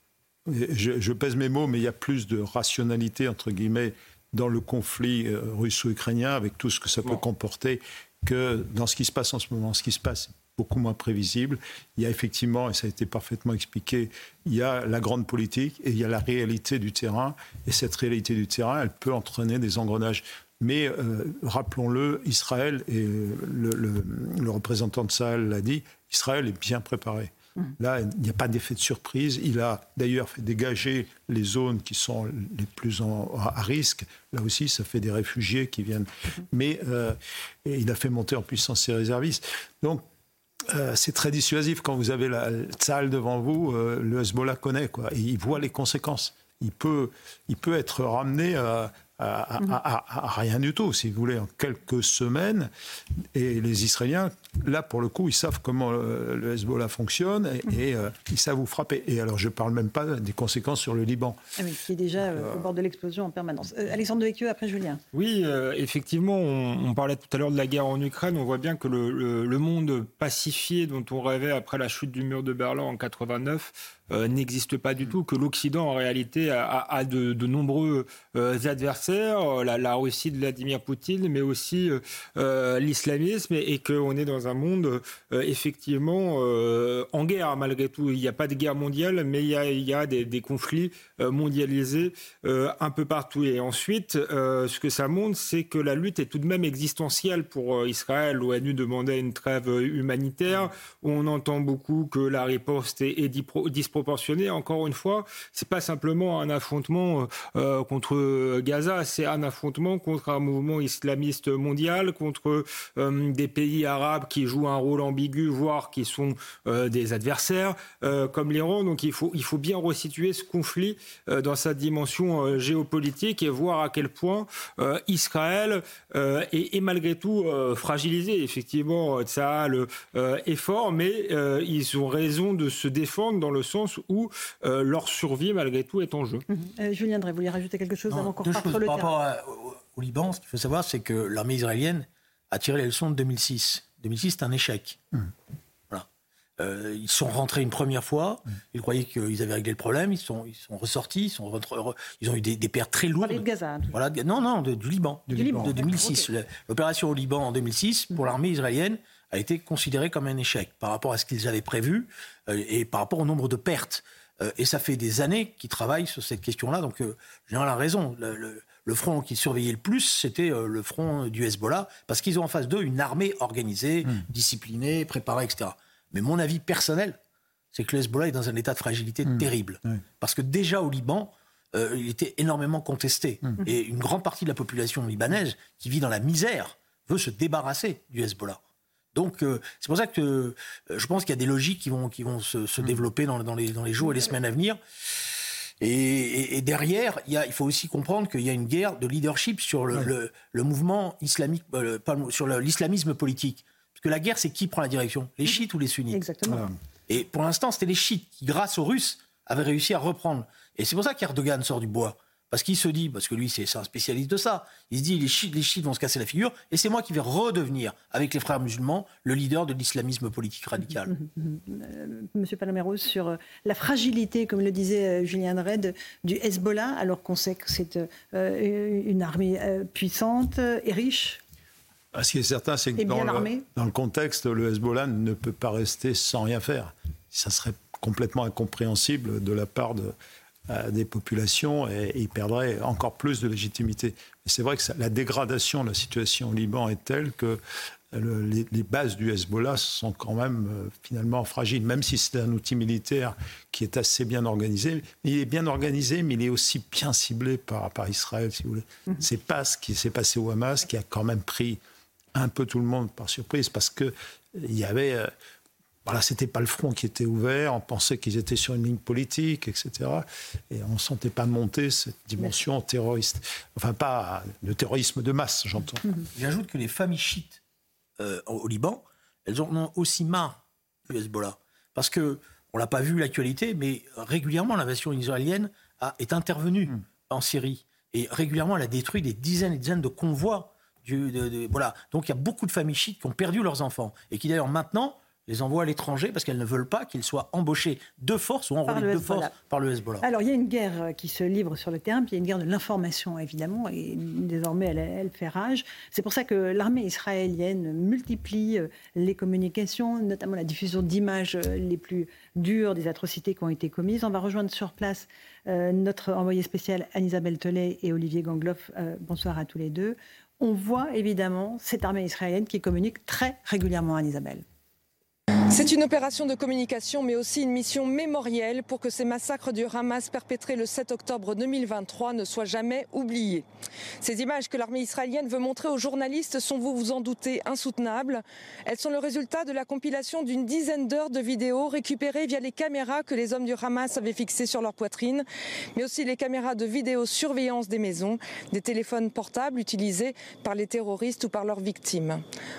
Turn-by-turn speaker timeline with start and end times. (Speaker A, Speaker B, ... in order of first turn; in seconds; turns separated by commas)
Speaker A: 0.5-40.0, Speaker A: 40.7-52.7, Speaker A: 53.4-61.4, Speaker B: 61.6-65.0, Speaker A: 62.3-62.6, Speaker C: 65.1-136.4, Speaker B: 136.5-139.2, Speaker D: 138.1-145.0, Speaker D: 146.6-177.2, Speaker B: 153.2-154.0, Speaker A: 155.3-155.8, Speaker B: 155.3-156.3, Speaker D: 177.7-188.6, Speaker A: 179.3-180.0, Speaker D: 189.1-194.8, Speaker D: 195.8-206.3, Speaker B: 205.5-206.7, Speaker A: 206.5-206.7, Speaker D: 207.1-221.1, Speaker B: 220.8-231.4, Speaker A: 232.2-240.2, Speaker B: 233.0-233.6, Speaker A: 240.7-247.6, Speaker A: 248.1-261.8, Speaker A: 262.4-265.3, Speaker A: 266.1-276.2, Speaker D: 276.4-277.6, Speaker D: 278.2-280.6, Speaker D: 281.1-300.3, Speaker B: 298.9-299.6, Speaker B: 300.2-324.6, Speaker E: 325.7-333.7, Speaker E: 334.2-352.4